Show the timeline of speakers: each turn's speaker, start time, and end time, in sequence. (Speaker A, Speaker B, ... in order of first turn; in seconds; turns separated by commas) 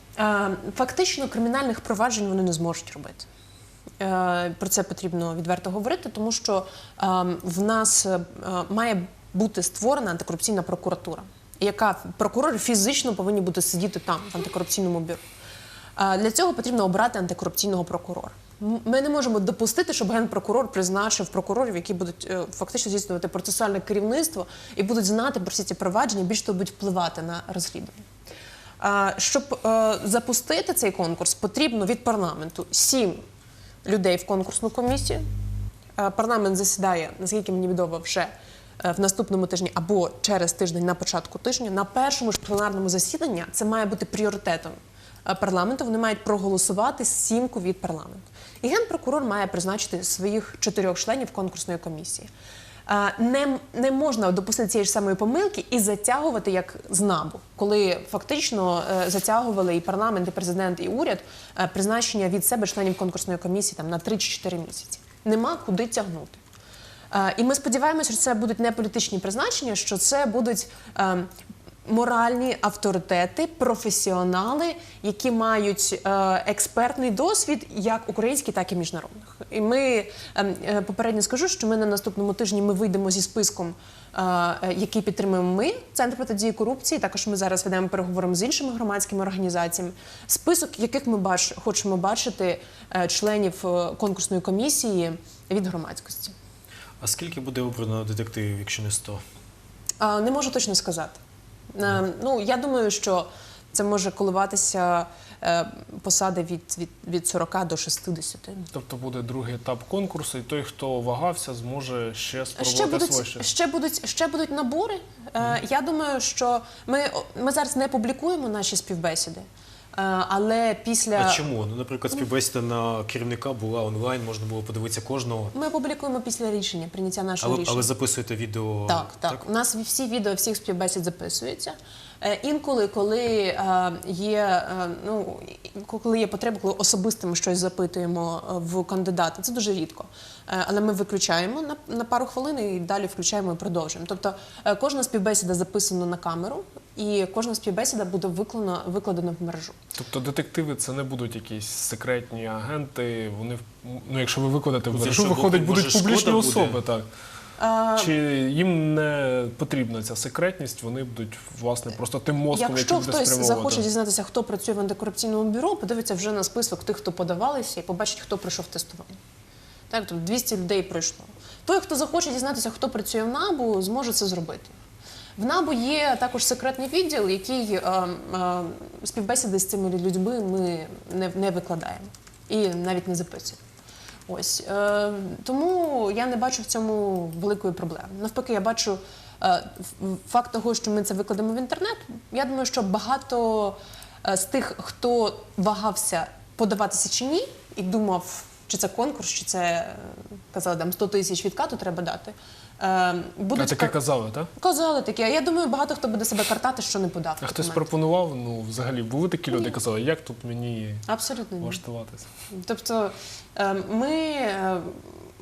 Speaker A: 0.2-3.3, Speaker A: 4.0-15.2, Speaker A: 16.0-28.1, Speaker A: 28.8-33.2, Speaker A: 33.9-35.2, Speaker A: 36.0-52.3, Speaker A: 52.9-66.4, Speaker A: 67.1-71.3, Speaker A: 71.9-96.3, Speaker B: 97.0-99.2, Speaker A: 100.0-101.2, Speaker A: 101.8-108.7, Speaker C: 108.7-113.5, Speaker A: 112.6-121.4, Speaker B: 121.2-125.5, Speaker A: 125.5-127.9, Speaker B: 127.4-129.4, Speaker A: 128.9-149.8, Speaker C: 149.9-157.1, Speaker B: 154.9-156.8, Speaker A: 157.6-158.2, Speaker C: 158.0-163.9, Speaker A: 162.5-169.2, Speaker A: 169.9-174.8, Speaker A: 175.4-183.6, Speaker A: 184.3-204.0, Speaker C: 203.6-204.5, Speaker A: 204.6-207.9, Speaker C: 207.4-211.1, Speaker A: 211.1-211.8, Speaker C: 211.6-212.3, Speaker A: 212.5-215.1